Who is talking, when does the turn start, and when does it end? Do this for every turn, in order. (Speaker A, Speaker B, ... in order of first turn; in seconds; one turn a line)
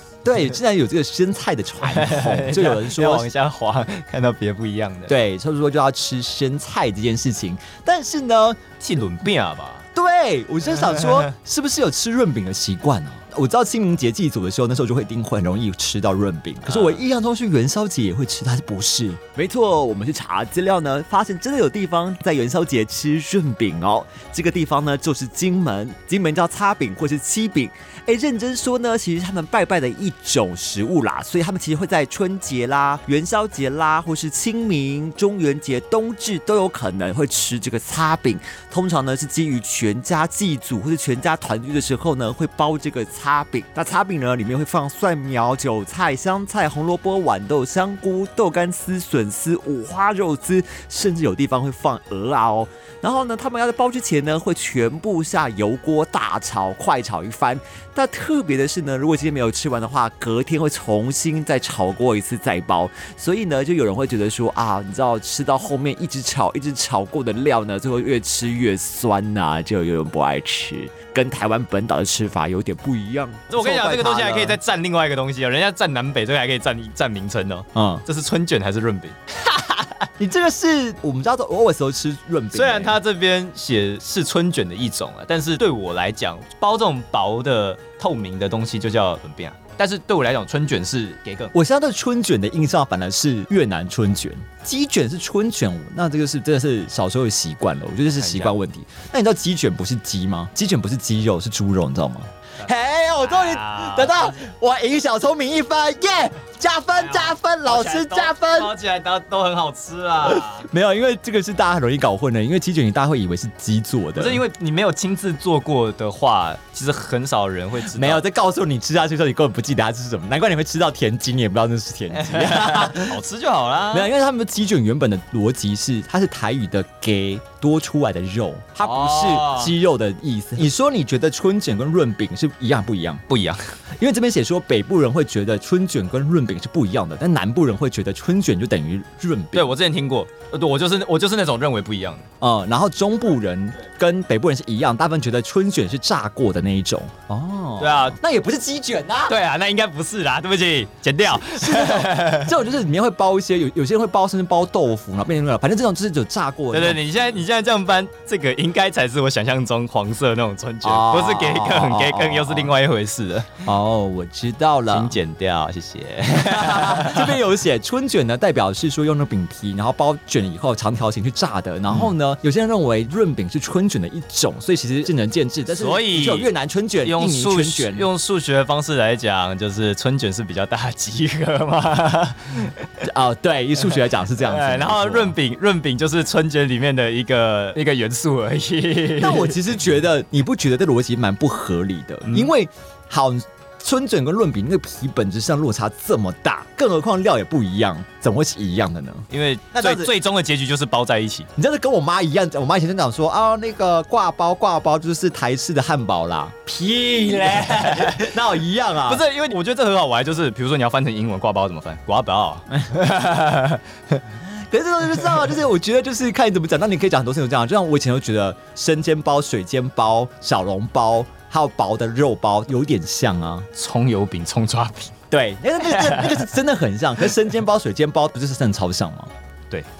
Speaker A: 0.2-3.3
Speaker B: 1.8-5.2
Speaker A: 5.1-8.6
Speaker B: 8.8-9.8
Speaker A: 9.9-74.6
Speaker B: 10.8-11.2
Speaker B: 16.6-17.0
Speaker B: 73.5-79.9
Speaker A: 77.7-78.0
Speaker A: 80.2-83.0
Speaker B: 82.5-91.5
Speaker A: 91.5-108.7
Speaker B: 98.2-98.5
Speaker B: 102.6-104.3
Speaker B: 106.9-110.7
Speaker A: 110.2-114.4
Speaker B: 114.2-118.2
Speaker A: 117.9-123.2
Speaker B: 122.1-124.1
Speaker A: 123.9-133.2
Speaker B: 128.8-129.7
Speaker B: 133.3-133.6
Speaker A: 134.0-139.7
Speaker B: 139.5-142.2
Speaker A: 142.4-149.4
Speaker B: 147.8-148.2
Speaker B: 149.2-152.5
Speaker A: 151.2-157.4
Speaker B: 156.7-163.5
Speaker A: 160.8-162.7
Speaker A: 163.6-165.2
Speaker B: 164.9-167.4
Speaker A: 166.4-178.1
Speaker B: 175.7-176.5
Speaker B: 177.0-182.8
Speaker A: 183.0-185.4
Speaker B: 184.4-189.6
Speaker A: 189.2-200.1
Speaker B: 192.2-192.5
Speaker B: 199.3-201.5
Speaker A: 201.6-209.2
Speaker B: 206.8-208.3
Speaker B: 209.1-214.2
Speaker A: 214.7-223.7
Speaker B: 223.7-225.1
Speaker A: 225.3-229.3
Speaker B: 225.8-226.4